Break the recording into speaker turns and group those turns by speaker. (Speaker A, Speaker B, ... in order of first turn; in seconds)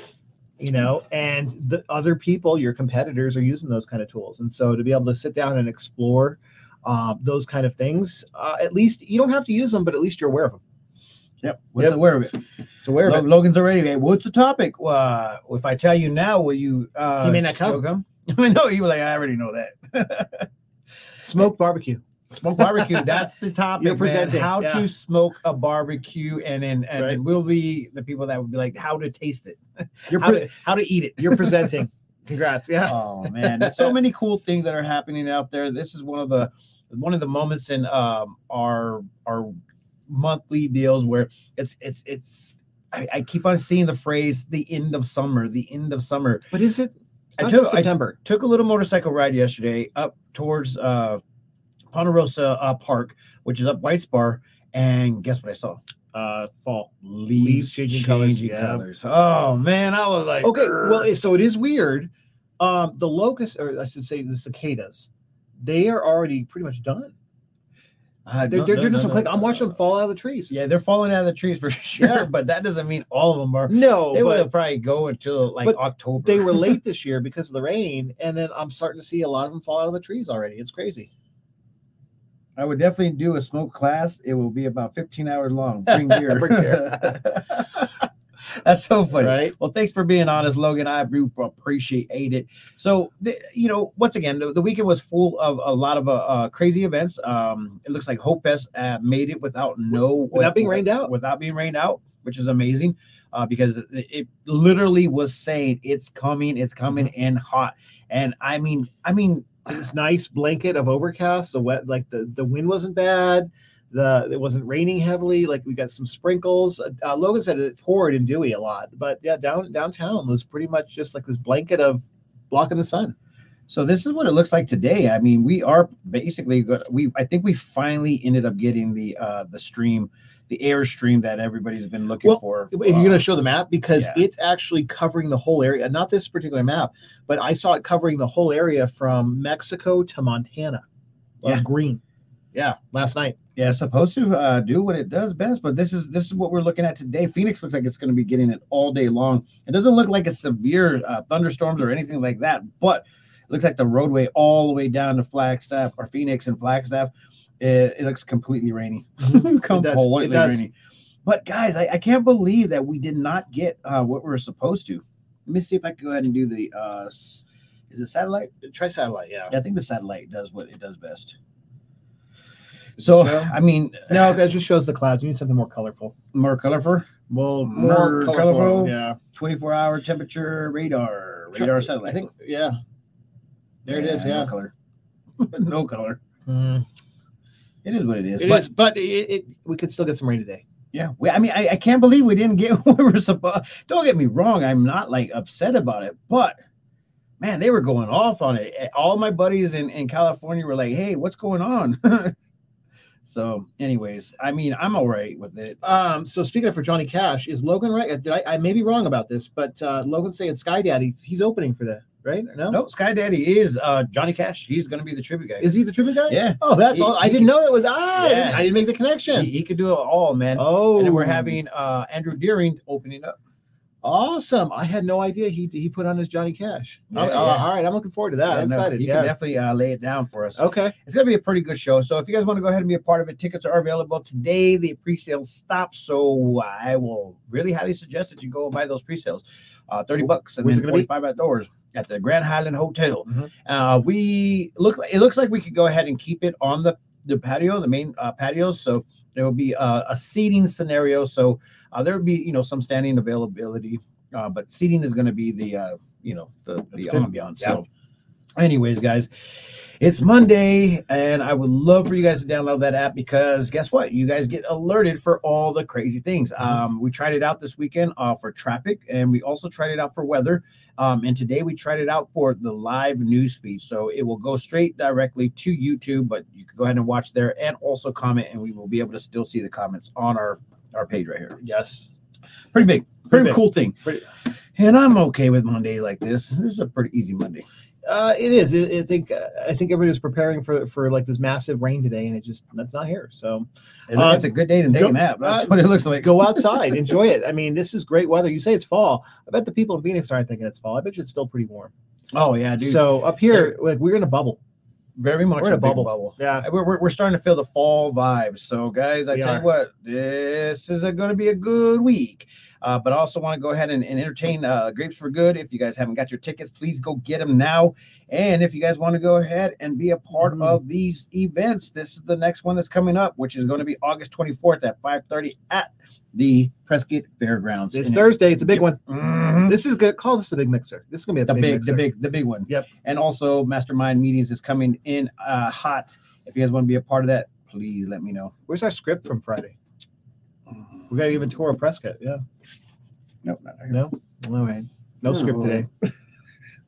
Speaker A: 0.6-10.6, 12.8-13.3, 17.2-17.8, 21.2-22.0, 22.6-23.2, 23.8-24.9, 30.1-30.5, 31.2-33.9, 46.5-48.2, 56.1-58.9, 60.4-65.1, 65.6-67.1, 68.5-70.5, 72.0-72.3, 73.7-74.5, 75.6-81.1, 85.9-87.2, 89.1-89.5, 100.3-101.1, 109.6-123.1, 132.2-140.8, 141.4-142.0, 142.5-143.3, 159.2-160.6, 168.6-169.5, 173.0-173.5, 174.1-176.1, 177.3-179.2, 181.5-182.8, 183.8-184.5, 186.4-186.8, 188.4-190.6, 205.8-212.8, 215.6-219.5, 220.5-221.6, 224.0-229.3, 230.6-230.9, 240.6-241.1, 256.9-257.8, 281.6-282.1, 283.3-284.2, 288.1-301.9, 302.8-304.6, 305.6-306.6, 309.3-309.6, 320.4-320.8, 327.9-329.0, 329.6-332.1, 338.7-339.7, 341.1-342.4, 343.9-345.9
Speaker B: 11.4-12.4, 13.0-20.5, 22.3-31.8, 32.9-39.5, 40.1-46.4, 47.4-51.2, 51.9-55.8, 57.0-61.1, 68.2-69.7, 70.5-76.8, 82.6-109.6, 123.7-133.2, 133.9-134.2, 143.6-160.7, 161.2-168.5, 169.5-171.3, 173.0-174.4, 176.3-177.1, 177.6-182.3, 183.9-184.7, 185.4-186.2, 187.8-188.7, 190.9-196.6, 197.4-202.3, 203.2-205.8, 212.7-215.7, 216.2-217.5, 218.2-218.7, 219.3-223.3, 227.1-227.7, 228.5-257.9, 258.6-259.3, 260.0-281.6, 282.7-284.1, 284.8-287.6, 294.1-297.0, 302.3-303.7, 305.2-329.8, 331.5-338.5, 343.4-344.0, 345.2-345.9